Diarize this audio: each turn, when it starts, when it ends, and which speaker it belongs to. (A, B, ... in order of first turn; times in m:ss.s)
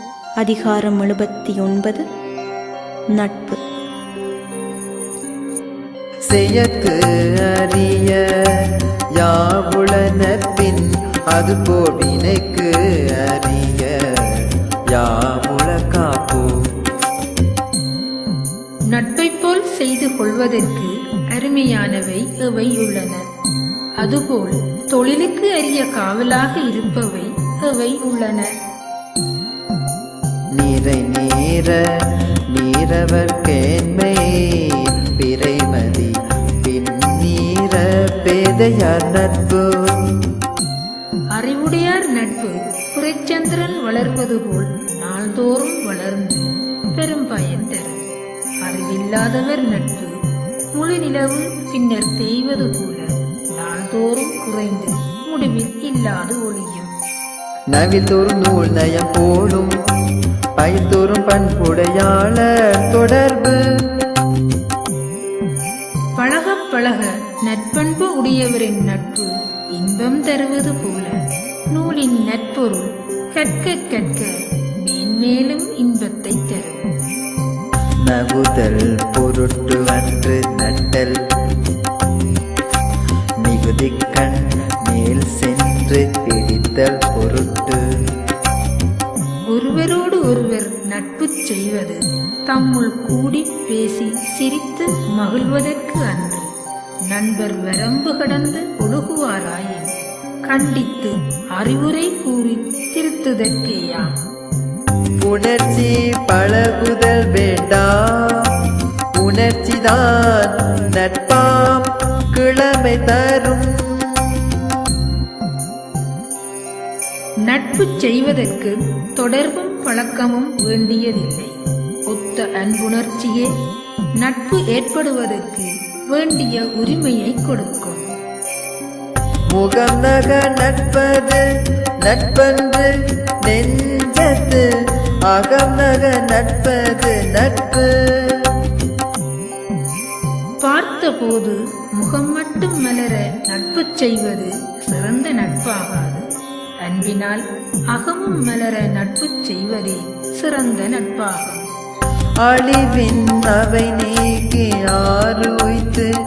0:00.4-0:02.0 A
0:03.2-0:03.6 A
0:06.3-0:16.7 B
0:18.9-0:23.2 C
0:24.0-0:28.5 C
0:30.6-0:31.8 B
0:32.5-0:40.3 B
0:41.3-0:48.1 C
0:48.6-0:50.2 C
0:50.7-0:56.9 C
0:57.7-0:59.8 B
1:00.6-1:03.6 B
1:06.2-1:11.2 C
1:11.7-1:17.0 C
1:18.1-1:21.2 B
1:23.4-1:27.8 B
1:29.5-1:36.5 C
1:37.1-1:39.9 C
1:40.5-1:44.2 C
1:45.2-1:48.6 B
1:49.2-1:54.7 B
1:57.5-2:01.6 C
2:02.1-2:03.5 C
2:04.2-2:08.1 C
2:09.5-2:11.4 B
2:12.0-2:14.7 B
2:15.2-2:18.6 B
2:20.6-2:26.2 C
2:26.8-2:31.7 C
2:32.4-2:36.1 B